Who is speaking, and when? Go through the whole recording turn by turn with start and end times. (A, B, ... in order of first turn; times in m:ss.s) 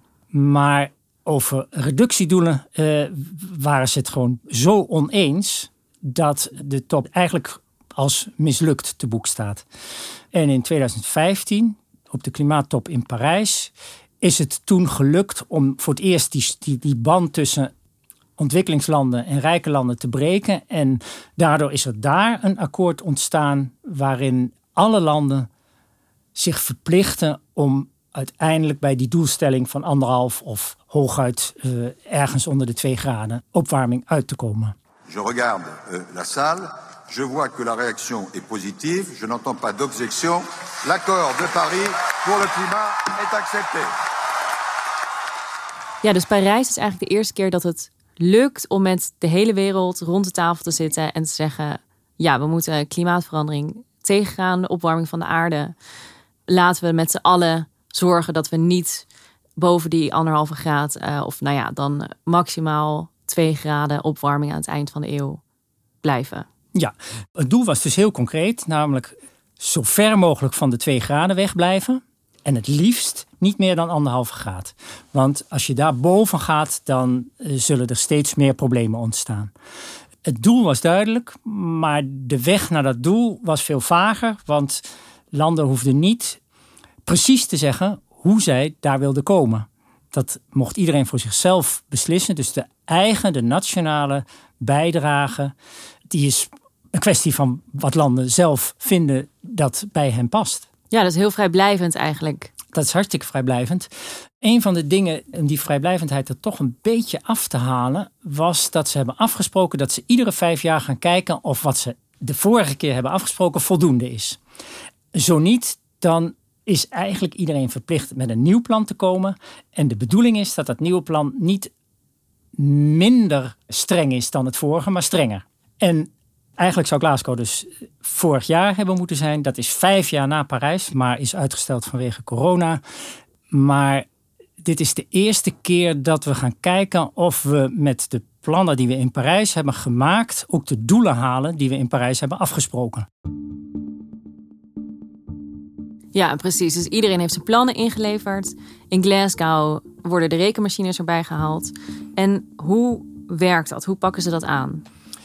0:00.3-0:09.6 A
0:10.3-0:17.7 A
0:18.4-0:25.5 A
0:26.4-0:34.7 A
0:35.1-0:43.9 B
0:46.0-0:55.7 C
0:56.5-0:59.0 C
0:59.6-1:05.4 C
1:06.0-1:06.4 C
1:06.7-1:19.5 A
1:20.2-1:26.4 A
1:27.0-1:35.5 A
1:36.1-1:40.7 A
1:40.9-1:42.5 C
1:42.7-1:43.9 A
1:44.4-1:54.4 A
1:55.1-2:01.7 A
2:02.6-2:12.8 A
2:13.5-2:14.0 A
2:14.6-2:23.1 A
2:26.1-2:34.8 C